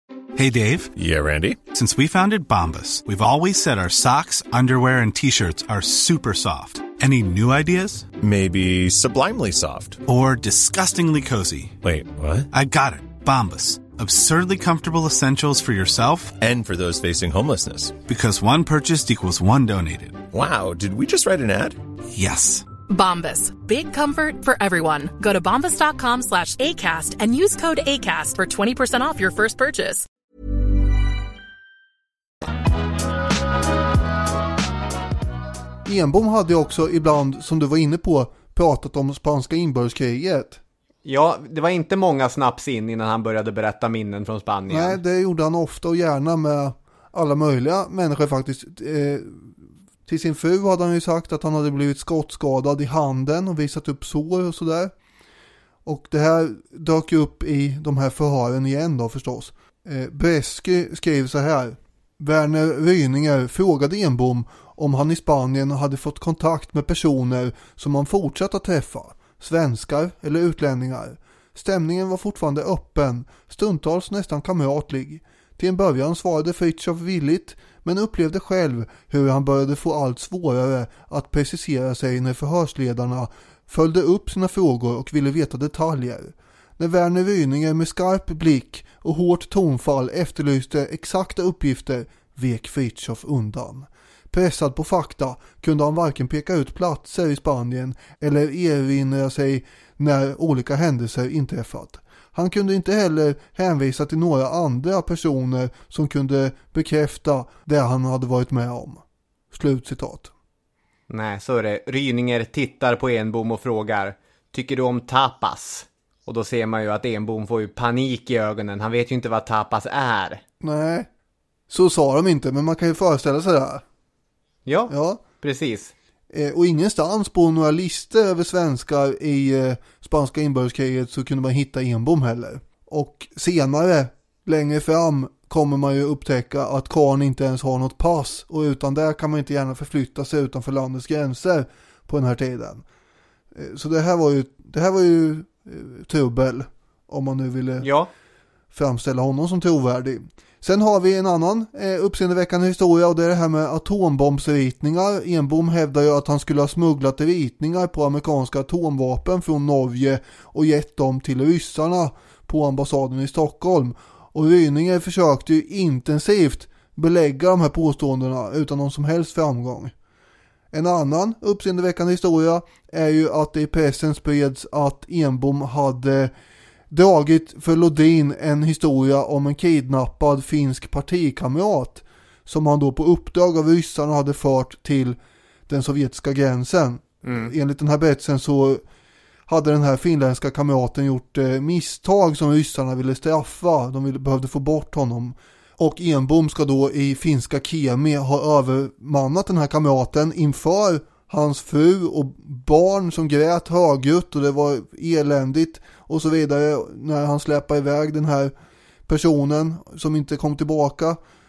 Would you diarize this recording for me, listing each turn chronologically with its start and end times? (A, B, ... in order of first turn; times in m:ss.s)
0:00.3-0:00.9 A
0:00.9-0:01.6 B
0:01.7-0:08.0 A
0:08.2-0:10.0 B
0:10.0-0:11.8 A
0:11.8-0:12.5 B
0:12.5-0:16.4 A
0:16.3-0:18.0 B
0:18.0-0:20.2 A
0:20.2-0:21.8 B
0:22.1-0:22.6 A
0:22.9-0:30.0 C
0:35.8-0:40.6 D
0:41.0-0:45.0 E
0:44.7-0:54.9 D
0:55.8-1:50.3 D
1:51.1-2:00.4 E
2:00.6-2:01.1 D
2:01.7-2:03.8 D
2:04.6-2:05.9 E
2:04.9-2:05.2 D
2:06.3-2:22.8 D
2:23.5-2:27.9 D
2:27.8-2:28.1 E
2:28.7-2:49.9 D
2:50.7-2:56.3 D
2:56.9-3:05.2 D
3:05.7-3:08.8 D
3:07.2-3:07.5 E
3:09.5-3:28.5 D
3:29.1-3:31.2 D